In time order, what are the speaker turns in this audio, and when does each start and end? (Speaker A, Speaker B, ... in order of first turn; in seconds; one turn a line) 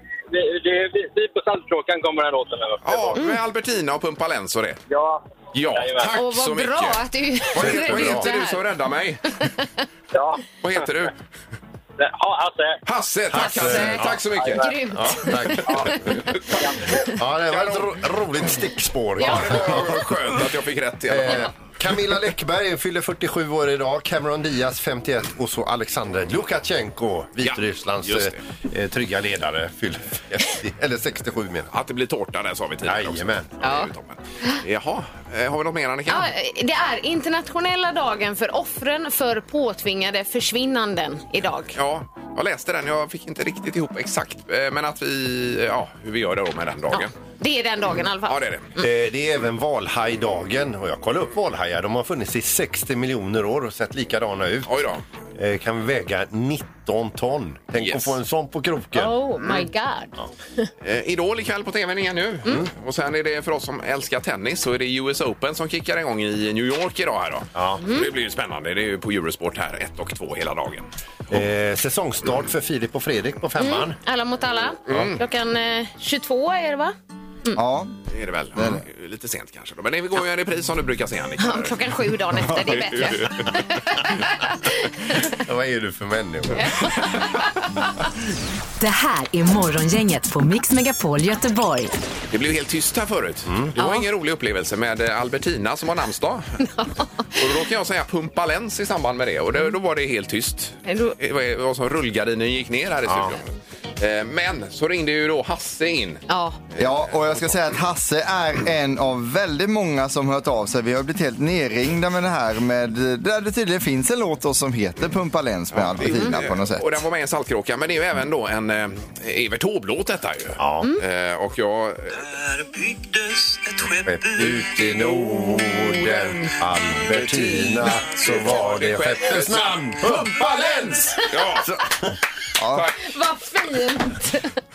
Speaker A: 0.3-3.3
Speaker B: 2.8-4.8
Speaker A: 4.9-6.2
Speaker B: 5.5-9.3
Speaker C: 6.1-8.6
Speaker D: 7.6-8.3
Speaker A: 10.1-10.5
Speaker B: 10.6-11.2
Speaker A: 12.0-12.8
Speaker B: 12.9-14.7
Speaker D: 13.3-14.3
Speaker C: 13.3-16.2
Speaker A: 14.3-14.8
Speaker D: 14.9-16.3
Speaker B: 15.7-16.9
Speaker A: 16.6-16.9
Speaker D: 17.0-20.4
Speaker B: 17.5-18.0
Speaker B: 19.2-21.5
Speaker C: 19.2-19.4
Speaker D: 21.1-31.7
Speaker B: 27.4-28.4
Speaker B: 31.7-36.3
Speaker D: 32.8-33.5
Speaker C: 33.6-33.9
Speaker C: 36.1-41.8
Speaker B: 41.7-47.1
Speaker C: 46.9-48.8
Speaker B: 48.3-48.7
Speaker D: 48.8-54.7
Speaker B: 54.7-55.0
Speaker D: 55.4-59.2
Speaker B: 57.8-58.1
Speaker C: 59.0-60.7
Speaker B: 60.8-70.9
Speaker D: 67.5-67.8
Speaker C: 67.8-68.1
Speaker D: 71.3-74.0
Speaker C: 73.6-77.6
Speaker B: 74.9-75.2
Speaker E: 77.5-77.9
Speaker B: 78.1-81.9
Speaker E: 78.5-78.8
Speaker C: 81.4-85.4
Speaker B: 82.4-83.5
Speaker D: 85.3-87.1
Speaker C: 86.6-87.9
Speaker F: 88.8-91.9
Speaker B: 92.3-96.5
Speaker C: 93.8-94.1
Speaker C: 96.6-97.0
Speaker B: 97.3-107.5
Speaker C: 100.9-101.2
Speaker D: 103.1-103.4
Speaker C: 106.3-106.6
Speaker E: 106.8-117.0
Speaker B: 115.7-122.3
Speaker C: 116.1-116.4
Speaker D: 120.6-120.9
Speaker D: 124.0-132.2
Speaker B: 127.1-131.7
Speaker E: 132.6-132.9
Speaker B: 132.7-133.0
Speaker C: 133.0-134.6